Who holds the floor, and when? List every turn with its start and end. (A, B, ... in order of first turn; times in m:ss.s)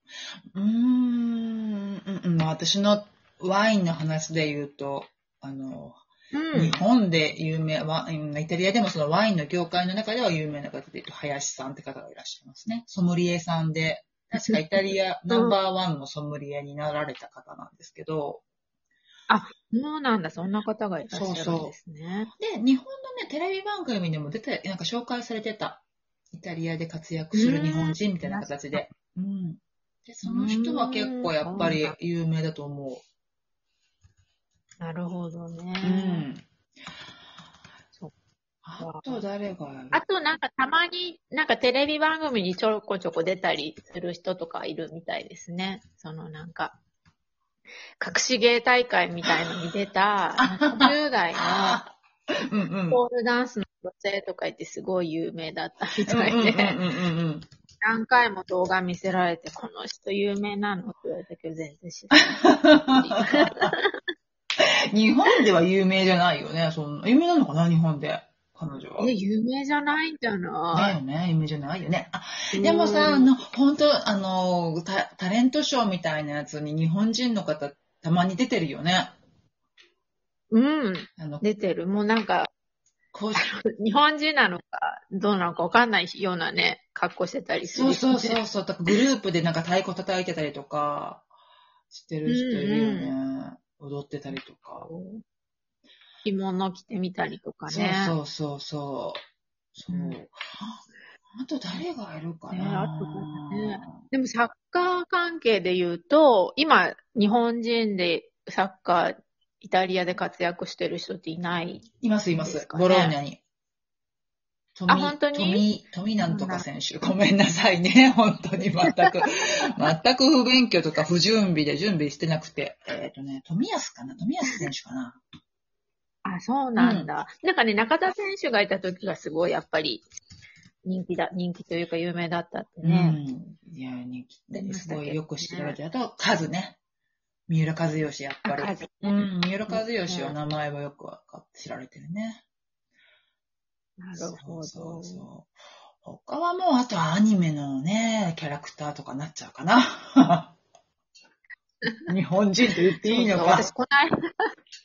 0:00.6-0:18.4 A
0:06.3-0:06.8 B
0:14.4-0:14.6 B
0:15.3-0:15.6 B
0:19.3-0:22.3 B
0:21.1-0:21.7 A
0:22.4-0:33.0 A
0:27.4-0:28.9 B
0:30.2-0:31.9 B
0:34.8-0:36.3 B
0:35.8-0:36.4 A
0:38.6-0:40.0 A
0:38.8-0:39.2 B
0:39.9-0:46.8 B
0:48.0-0:51.8 B
0:50.4-0:53.0 A
0:52.9-0:56.8 B
0:56.1-0:57.4 A
0:57.8-1:04.0 B
1:02.2-1:03.7 A
1:04.6-1:09.1 A
1:09.0-1:11.0 B
1:10.7-1:19.2 A
1:12.5-1:13.3 B
1:20.5-1:22.5 B
1:21.2-1:21.4 A
1:23.1-1:23.5 A
1:23.4-1:29.0 B
1:27.7-1:31.3 A
1:31.9-1:34.9 A
1:32.3-1:33.1 B
1:34.8-1:35.2 B
1:36.2-1:38.2 B
1:37.7-1:39.2 A
1:39.8-1:40.8 A
1:39.9-1:40.2 B
1:41.3-1:43.9 A
1:42.5-1:51.9 B
1:52.0-1:53.4 A
1:52.4-1:53.2 B
1:54.8-2:05.2 A
1:54.9-1:55.6 B
1:56.2-1:56.7 B
2:06.2-2:10.0 B
2:06.8-2:07.1 A
2:10.8-2:13.2 B
2:12.8-2:16.8 A
2:14.5-2:15.8 B
2:17.5-2:22.4 A
2:18.4-2:20.4 B
2:24.0-2:25.3 B
2:24.2-2:25.5 A
2:26.0-2:30.5 A
2:31.8-2:32.1 B
2:32.1-2:33.7 A
2:33.0-2:34.5 B